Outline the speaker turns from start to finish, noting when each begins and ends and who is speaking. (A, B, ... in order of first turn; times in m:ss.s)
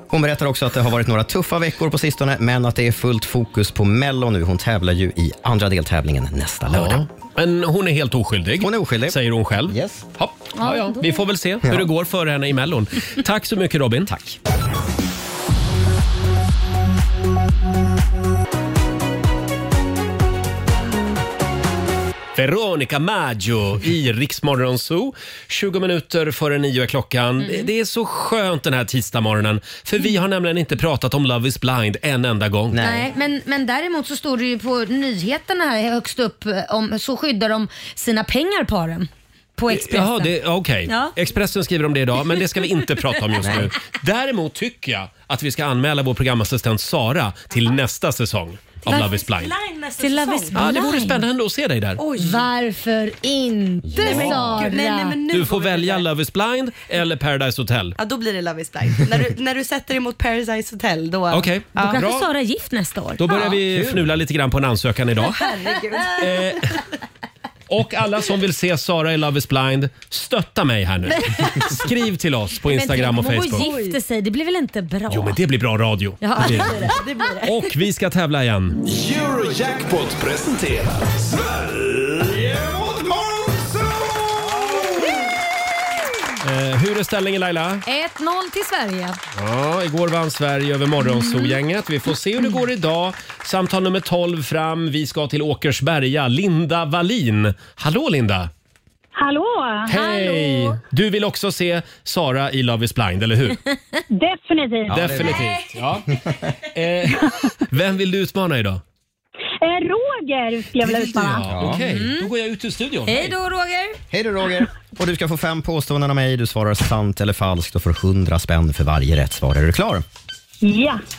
0:00.1-0:07.0 A
0:06.7-0:14.1 B
0:08.6-0:10.0 A
0:10.6-0:11.1 C
0:14.1-0:14.4 A
0:22.4-0:32.8 B
0:27.4-0:27.7 C
0:32.7-0:33.1 A
0:32.8-0:40.3 C
0:39.7-0:49.5 B
0:40.9-0:41.1 C
0:43.4-0:43.7 A
0:48.8-0:50.8 D
0:50.0-0:51.2 C
0:50.5-0:52.0 B
0:52.0-0:52.5 D
0:52.2-0:55.2 C
0:53.9-0:54.4 A
0:54.0-0:56.1 D
0:54.0-0:54.4 B
0:55.3-0:58.0 B
0:58.0-1:02.0 D
1:01.3-1:02.3 B
1:01.8-1:03.6 C
1:03.2-1:05.5 B
1:03.7-1:04.1 A
1:05.3-1:06.4 D
1:06.2-1:06.8 B
1:07.7-1:13.7 B
1:11.2-1:11.5 C
1:12.7-1:15.4 C
1:13.6-1:14.0 D
1:15.1-1:16.9 B
1:16.2-1:17.1 C
1:16.4-1:17.6 D
1:17.4-1:18.8 B
1:18.8-1:25.3 E
1:26.4-1:27.8 B
1:27.9-1:29.2 C
1:29.4-1:38.5 B
1:31.1-1:31.6 C
1:39.2-1:39.9 F
1:39.9-1:43.6 B
1:39.9-1:40.8 C
1:44.1-1:45.1 F
1:44.9-1:45.4 A
1:44.9-1:46.2 B
1:46.1-1:46.5 A
1:46.7-1:48.8 B
1:49.6-1:51.5 F
1:50.8-1:53.4 B
1:51.5-1:51.8 A
1:51.7-1:52.3 C
1:53.1-1:54.0 C
1:54.1-2:00.0 A
2:00.6-2:01.0 F